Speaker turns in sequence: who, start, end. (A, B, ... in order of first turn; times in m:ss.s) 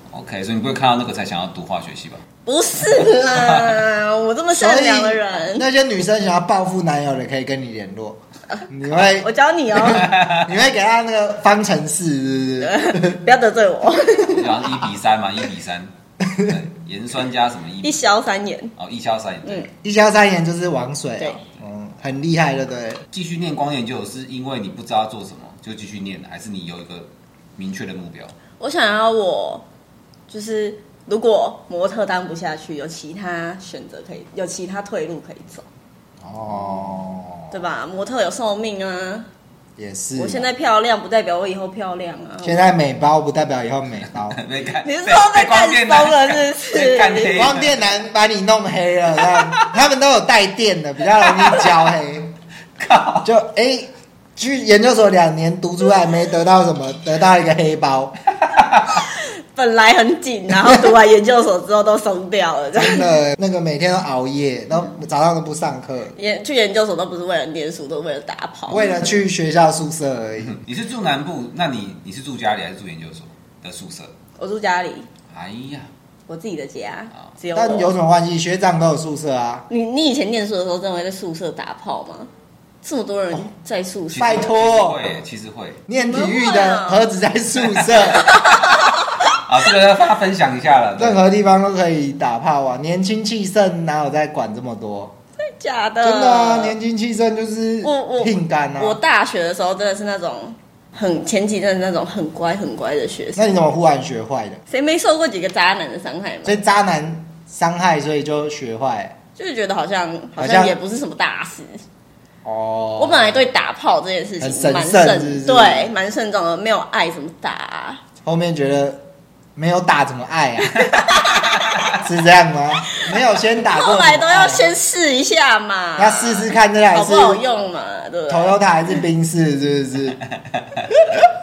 0:00.1-0:02.2 A
0:02.4-0:05.6 B
0:03.3-0:03.8 A
0:04.6-0:13.2 C
0:09.2-0:10.1 B
0:09.9-0:10.5 A
0:12.6-0:14.5 B
0:14.2-0:18.0 A
0:17.8-0:18.7 B
0:18.8-0:19.7 A
0:19.8-0:23.0 C
0:23.1-0:28.3 A
0:28.6-0:29.6 B
0:30.3-0:35.6 B
0:36.2-0:37.5 C
0:37.5-0:39.3 B
0:39.8-0:40.4 C
0:40.2-0:42.7 B
0:42.4-0:44.4 C
0:44.3-0:47.9 A
0:44.8-0:47.4 B
0:47.3-0:52.3 C
0:49.4-0:49.7 A
0:51.3-0:51.7 A
0:52.8-0:53.3 A
0:53.2-0:58.2 C
0:58.5-0:58.8 A
0:59.1-1:03.1 B
1:02.7-1:06.2 C
1:06.2-1:09.0 B
1:08.7-1:10.6 C
1:10.5-1:14.1 A
1:14.4-1:15.1 B
1:15.3-1:15.9 A
1:16.3-1:17.9 B
1:17.5-1:19.6 C
1:19.7-1:22.3 B
1:22.8-1:24.5 B
1:24.1-1:25.8 A
1:24.1-1:25.0 C
1:25.9-1:28.4 C
1:26.0-1:27.1 B
1:27.6-1:28.0 A
1:28.2-1:29.2 B
1:29.3-1:31.2 A
1:31.0-1:35.1 C
1:35.4-1:36.8 B
1:36.0-1:39.0 C
1:37.8-1:43.5 B
1:43.4-1:44.6 C
1:44.7-1:46.6 B
1:46.4-1:49.2 C
1:49.4-1:51.8 B
1:50.4-1:50.7 C
1:52.4-1:53.4 C
1:53.0-1:58.0 B
1:54.4-1:55.9 C
1:58.2-1:59.0 C
1:59.6-2:01.0 C
2:00.9-2:01.8 B
2:01.9-2:04.7 C
2:03.7-2:08.6 B
2:06.0-2:07.4 C
2:08.3-2:10.2 C